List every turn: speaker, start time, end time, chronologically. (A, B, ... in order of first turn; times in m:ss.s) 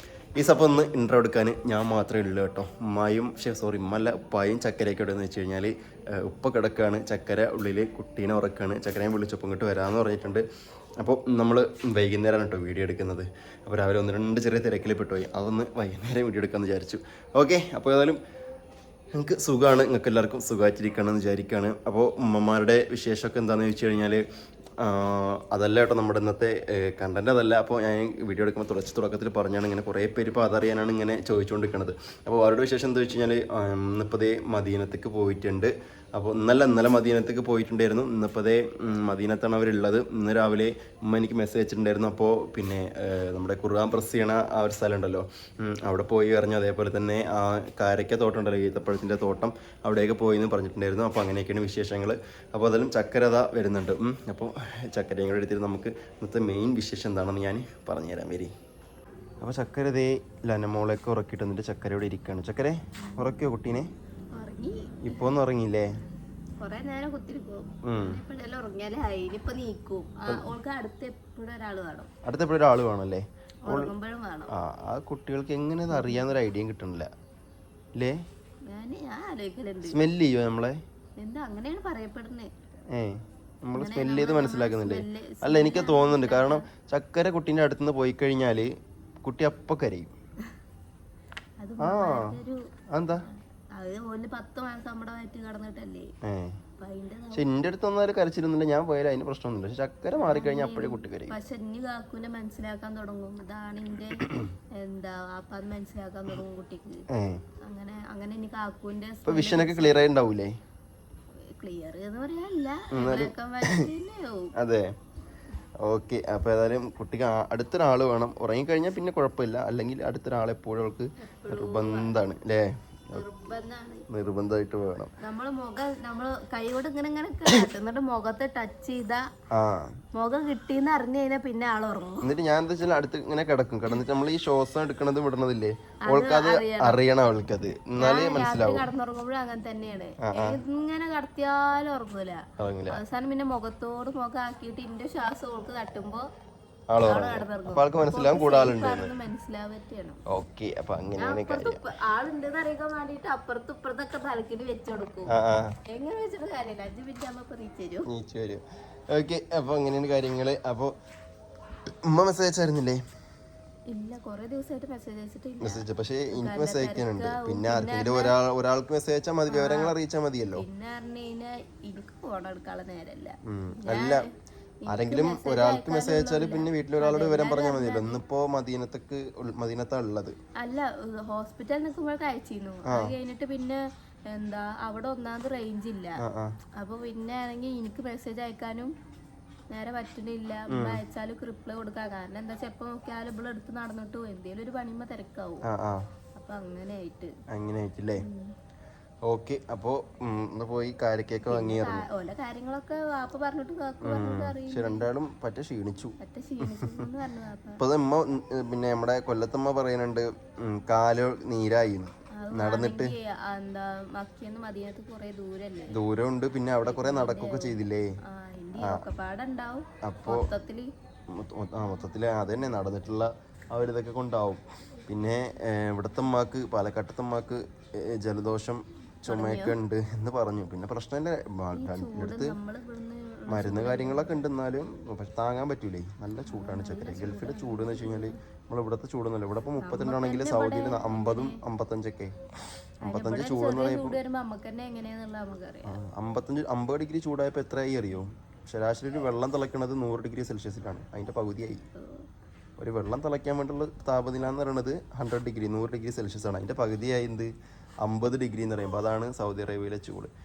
0:00.4-0:10.4 A
0:11.0-0:18.2 A
0:19.2-0:24.2 A
0:24.8-0:58.5 A
0:59.4-1:03.9 A
1:03.1-1:03.3 B
1:04.3-1:05.4 B
1:05.0-1:05.9 A
1:06.6-1:12.1 B
1:07.8-1:08.2 A
1:12.2-1:13.9 A
1:13.7-1:14.5 B
1:14.5-1:17.1 A
1:15.9-1:16.3 B
1:18.7-1:20.0 B
1:19.8-1:20.8 A
1:21.2-1:22.5 B
1:22.9-1:28.7 A
1:23.7-1:26.6 B
1:29.2-1:30.1 A
1:31.6-1:32.6 B
1:31.8-1:32.3 A
1:32.9-1:33.2 A
1:33.7-1:36.1 B
1:36.2-1:36.6 A
1:36.8-1:37.5 B
1:37.3-1:41.3 A
1:40.2-1:47.0 B
1:47.1-1:47.4 A
1:47.7-1:50.1 B
1:49.2-1:50.5 A
1:51.6-1:54.5 B
1:52.9-1:53.8 A
1:54.6-1:54.9 A
1:55.8-2:03.2 A
2:01.2-2:02.2 B
2:03.1-2:04.0 B
2:04.1-2:05.1 A
2:05.2-2:09.2 B
2:09.5-2:09.9 A
2:10.1-2:12.2 B
2:12.2-2:18.8 A
2:16.1-2:17.0 B
2:17.9-2:26.3 B
2:20.2-2:20.6 A
2:22.6-2:23.0 A
2:26.9-2:29.1 A
2:27.0-2:30.2 B
2:30.3-2:31.8 A
2:31.2-2:35.3 B
2:35.3-2:35.7 A
2:35.9-2:38.1 B
2:38.1-2:40.9 A
2:42.0-2:43.0 A
2:43.9-2:48.3 B
2:45.6-2:50.6 A
2:49.5-2:49.9 B
2:50.5-2:54.3 B
2:53.5-2:54.2 A
2:54.8-2:58.2 B
2:54.9-3:00.3 A
3:00.6-3:03.8 B
3:02.9-3:03.1 A
3:04.3-3:06.2 B
3:06.2-3:06.6 A
3:06.8-3:08.9 B
3:09.7-3:15.6 B
3:10.7-3:11.0 A
3:15.6-3:16.0 A
3:16.4-3:17.3 B
3:17.5-3:18.2 A
3:18.2-3:18.4 B
3:19.2-3:22.0 A
3:21.5-3:25.1 B
3:24.0-3:26.1 A
3:26.2-3:27.8 B
3:27.8-3:33.1 A
3:32.4-3:36.0 B
3:35.9-3:38.2 A
3:36.8-3:40.9 B
3:40.0-3:40.5 A
3:41.3-3:52.5 A
3:49.3-3:49.8 B
3:51.7-3:54.4 B
3:53.5-4:02.3 A
3:56.5-3:58.4 B
3:59.8-4:01.6 B
4:03.0-4:04.2 A
4:03.0-4:05.9 B
4:05.9-4:11.8 A
4:11.9-4:12.2 B
4:12.8-4:17.5 A
4:18.0-4:20.3 A